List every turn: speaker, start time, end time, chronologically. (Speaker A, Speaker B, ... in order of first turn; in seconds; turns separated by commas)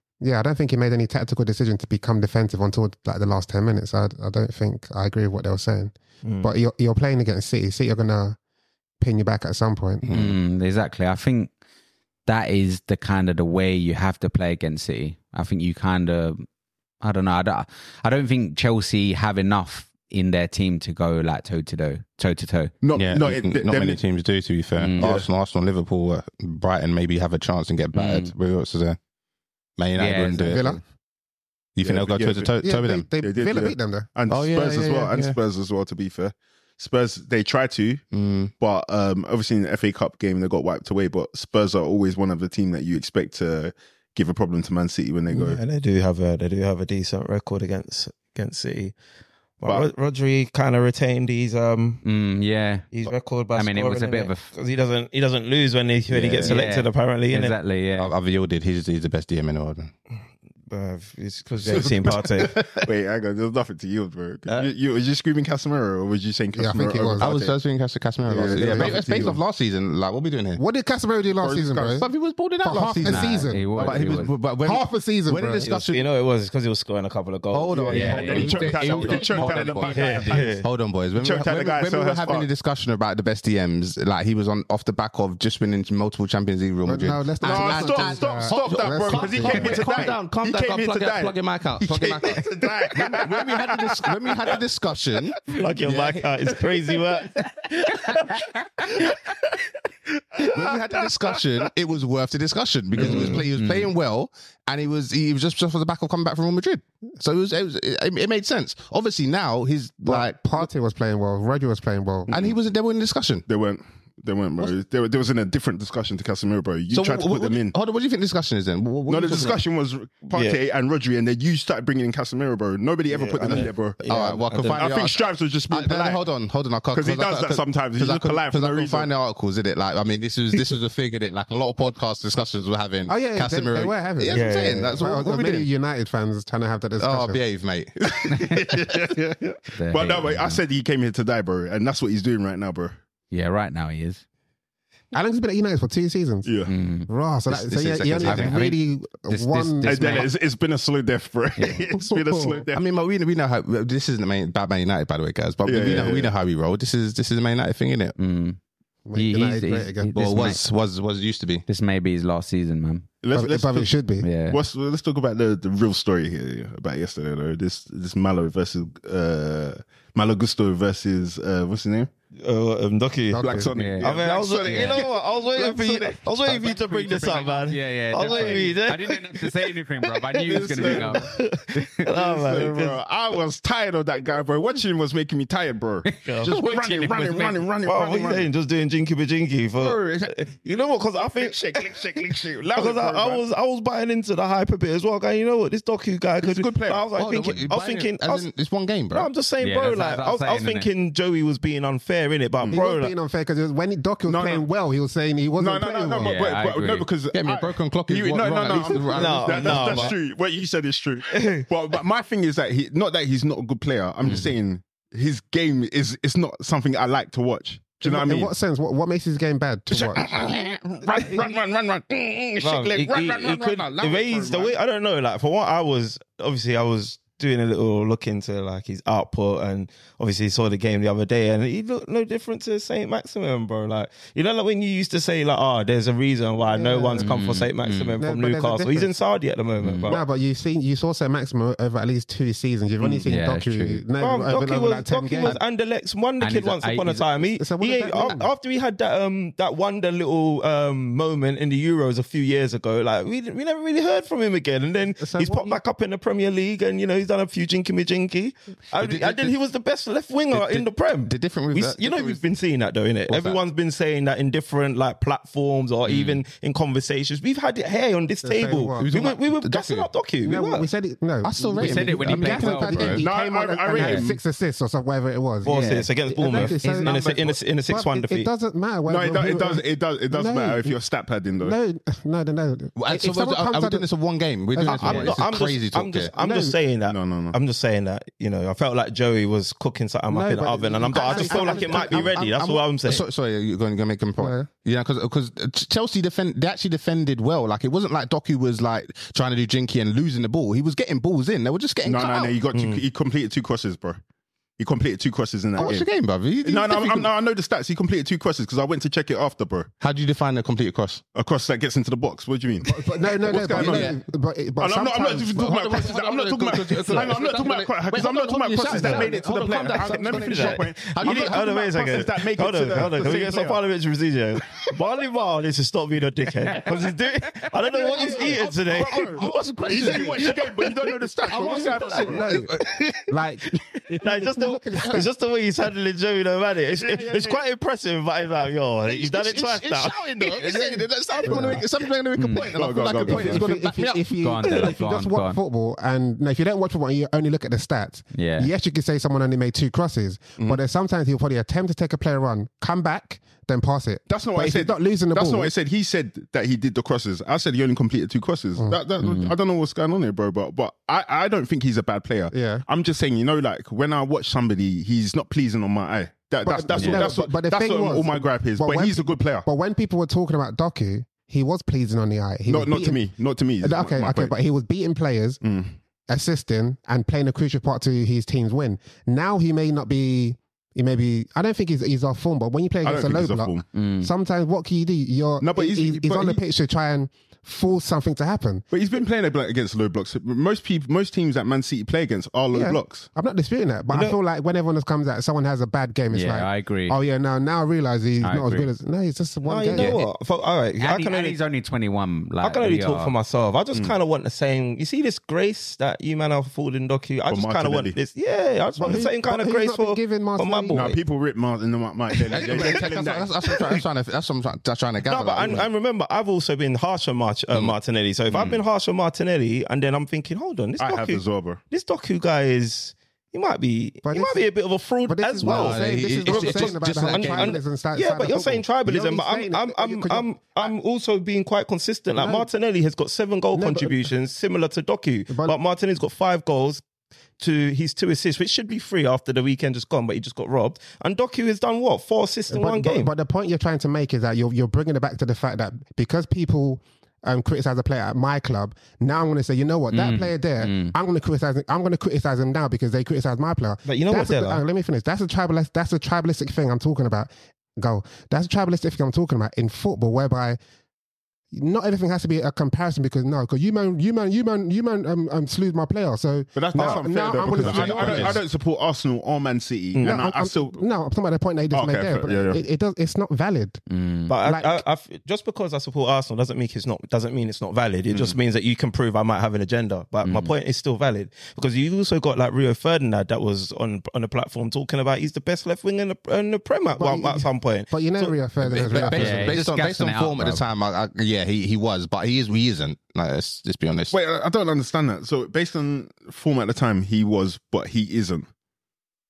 Speaker A: 0.2-8.4, Speaker B: 6.2-6.5, Speaker A: 9.0-10.1, Speaker C: 10.0-10.4, Speaker D: 10.1-11.5, Speaker D: 12.3-16.4, Speaker D: 17.0-22.7, Speaker E: 22.8-24.0, Speaker C: 22.9-29.0, Speaker D: 24.8-25.1, Speaker E: 25.0-25.3, Speaker D: 27.9-28.3, Speaker C: 29.8-30.7, Speaker D: 30.0-30.8, Speaker A: 30.5-30.8, Speaker C: 31.8-33.1, Speaker E: 31.8-32.6, Speaker A: 32.6-34.1, Speaker E: 33.2-38.0, Speaker C: 34.3-35.4, Speaker C: 38.1-38.5, Speaker E: 38.6-45.6, Speaker B: 45.3-49.0, Speaker B: 49.6-52.0, Speaker D: 52.0-52.9, Speaker B: 52.9-57.6, Speaker D: 53.5-54.5, Speaker C: 56.1-56.6, Speaker D: 56.4-58.1, Speaker C: 58.0-59.9, Speaker B: 60.7-62.7, Speaker C: 61.6-62.5, Speaker E: 61.7-67.5, Speaker A: 66.5-67.3, Speaker C: 67.2-70.6, Speaker A: 68.3-69.0, Speaker E: 68.3-69.4, Speaker A: 70.6-72.1, Speaker E: 71.4-72.1, Speaker C: 72.0-76.0, Speaker A: 72.6-75.8, Speaker D: 73.0-74.3, Speaker B: 75.6-78.5, Speaker C: 77.5-96.3, Speaker D: 77.9-80.5, Speaker A: 77.9-79.2, Speaker E: 78.1-80.6, Speaker B: 79.9-80.7, Speaker E: 81.2-82.5, Speaker A: 86.9-89.9, Speaker E: 87.4-94.0, Speaker B: 95.5-99.3, Speaker B: 100.4-100.7, Speaker C: 100.5-110.4, Speaker B: 103.0-103.5, Speaker D: 103.0-103.9, Speaker A: 110.1-112.3, Speaker C: 112.3-113.5, Speaker E: 113.5-117.8, Speaker C: 116.9-119.6, Speaker E: 119.1-124.0, Speaker B: 120.3-120.6, Speaker B: 123.1-124.9, Speaker C: 123.5-125.2, Speaker E: 124.6-126.2, Speaker C: 125.7-135.7, Speaker E: 126.9-129.1, Speaker A: 133.1-137.4, Speaker B: 134.3-135.0, Speaker C: 137.0-138.3, Speaker E: 138.1-143.0, Speaker D: 139.8-140.6, Speaker D: 143.3-144.2, Speaker A: 145.1-146.5, Speaker E: 146.4-146.7, Speaker D: 146.7-147.1, Speaker A: 147.1-150.3, Speaker C: 147.5-148.6, Speaker D: 148.2-150.3, Speaker E: 149.8-152.8, Speaker D: 151.6-151.9, Speaker A: 151.9-152.6, Speaker C: 152.7-158.2, Speaker E: 155.6-156.3, Speaker D: 158.2-158.6, Speaker A: 159.1-160.2, Speaker D: 159.2-160.7, Speaker C: 160.1-161.6, Speaker D: 161.7-163.1, Speaker E: 163.2-163.9, Speaker A: 163.3-164.3, Speaker D: 164.2-164.6, Speaker E: 164.5-172.1, Speaker B: 172.4-183.0, Speaker A: 173.3-173.7, Speaker E: 173.4-177.5, Speaker D: 173.7-175.0, Speaker C: 177.0-177.3, Speaker D: 177.6-181.9, Speaker E: 178.3-178.6, Speaker E: 180.5-181.3, Speaker E: 182.1-188.5, Speaker D: 186.1-187.5, Speaker B: 186.2-186.6, Speaker B: 187.8-198.5, Speaker E: 191.2-193.4, Speaker E: 196.4-197.1, Speaker C: 197.2-199.3, Speaker B: 199.1-203.1, Speaker D: 199.6-200.9, Speaker A: 202.7-206.3, Speaker E: 204.3-204.7, Speaker E: 205.6-218.5, Speaker D: 206.2-207.1, Speaker C: 207.3-210.2, Speaker B: 208.9-210.2, Speaker B: 211.3-211.7, Speaker D: 214.3-214.5, Speaker A: 218.0-220.3, Speaker C: 220.1-220.6, Speaker E: 220.3-224.7, Speaker A: 221.1-221.5, Speaker B: 222.6-240.2, Speaker C: 223.0-223.8, Speaker A: 236.7-237.3, Speaker D: 237.2-238.2, Speaker A: 238.2-239.1, Speaker D: 239.8-240.2, Speaker A: 240.1-245.6, Speaker D: 243.2-244.0, Speaker B: 244.2-270.9, Speaker D: 246.4-247.3, Speaker A: 247.6-248.5, Speaker A: 255.2-255.8, Speaker C: 258.9-259.5, Speaker C: 260.5-262.4, Speaker C: 263.3-263.6, Speaker D: 266.1-266.4, Speaker A: 268.4-269.1, Speaker C: 269.0-270.1, Speaker A: 270.4-277.3, Speaker C: 271.4-273.2, Speaker D: 271.8-273.2, Speaker E: 273.2-274.4, Speaker D: 273.9-274.3, Speaker B: 275.6-278.5, Speaker D: 275.6-277.6, Speaker A: 277.9-281.0, Speaker E: 279.1-281.8, Speaker A: 281.6-284.1, Speaker C: 283.0-286.3, Speaker A: 284.8-285.4, Speaker B: 284.8-293.2, Speaker A: 286.4-286.8, Speaker E: 287.1-287.6, Speaker A: 290.3-292.4, Speaker C: 291.2-302.6, Speaker A: 294.4-294.7, Speaker E: 302.0-304.2, Speaker B: 302.7-303.0, Speaker E: 304.8-306.1, Speaker C: 305.8-307.3, Speaker E: 306.6-309.9, Speaker C: 310.0-311.2, Speaker E: 311.4-314.1, Speaker A: 312.9-315.7, Speaker C: 313.7-314.2, Speaker E: 314.8-323.8, Speaker C: 315.5-321.7, Speaker A: 318.9-319.3, Speaker B: 319.9-329.5, Speaker C: 327.9-330.7, Speaker E: 328.2-332.6, Speaker B: 330.1-330.6, Speaker C: 331.5-332.8, Speaker A: 331.6-335.3, Speaker B: 331.7-332.2, Speaker B: 332.7-341.7, Speaker E: 336.9-337.6, Speaker C: 339.1-344.3, Speaker A: 341.5-341.8, Speaker D: 342.4-342.7, Speaker E: 342.7-343.8, Speaker A: 343.2-355.7, Speaker D: 344.4-345.6, Speaker D: 348.3-348.7, Speaker E: 354.3-369.7, Speaker D: 359.2-359.6, Speaker A: 362.5-362.9, Speaker A: 366.6-373.2, Speaker D: 367.0-367.3, Speaker E: 372.7-374.6, Speaker A: 373.8-375.6, Speaker E: 375.6-375.9, Speaker A: 376.3-388.9, Speaker E: 383.0-383.9, Speaker D: 383.9-384.3, Speaker E: 385.6-386.6, Speaker E: 388.9-393.3, Speaker A: 392.7-400.2, Speaker B: 394.1-394.4, Speaker D: 396.3-397.2, Speaker D: 398.4-398.9, Speaker B: 399.6-401.6, Speaker D: 401.0-403.3, Speaker B: 402.6-411.2, Speaker E: 407.5-408.2, Speaker A: 409.0-411.2, Speaker E: 410.9-413.5, Speaker B: 412.4-413.0, Speaker C: 412.5-415.9, Speaker B: 413.7-414.0, Speaker B: 415.2-437.0, Speaker D: 418.5-418.8, Speaker E: 421.0-421.8, Speaker A: 424.2-424.7, Speaker A: 425.3-430.5, Speaker C: 425.6-427.8, Speaker A: 432.4-432.7, Speaker A: 433.7-434.3, Speaker A: 435.5-435.8, Speaker B: 437.6-443.3, Speaker A: 442.7-460.8, Speaker D: 450.1-451.1, Speaker B: 454.1-454.8, Speaker A: 461.7-468.6, Speaker E: 466.8-471.0, Speaker D: 467.6-468.6, Speaker A: 470.2-474.0, Speaker E: 471.9-472.8, Speaker D: 474.1-474.5, Speaker B: 474.5-488.6, Speaker A: 474.6-475.0, Speaker E: 478.3-478.6, Speaker D: 480.4-480.7, Speaker A: 487.2-489.8, Speaker C: 488.8-494.3, Speaker D: 489.3-490.8, Speaker E: 494.3-498.7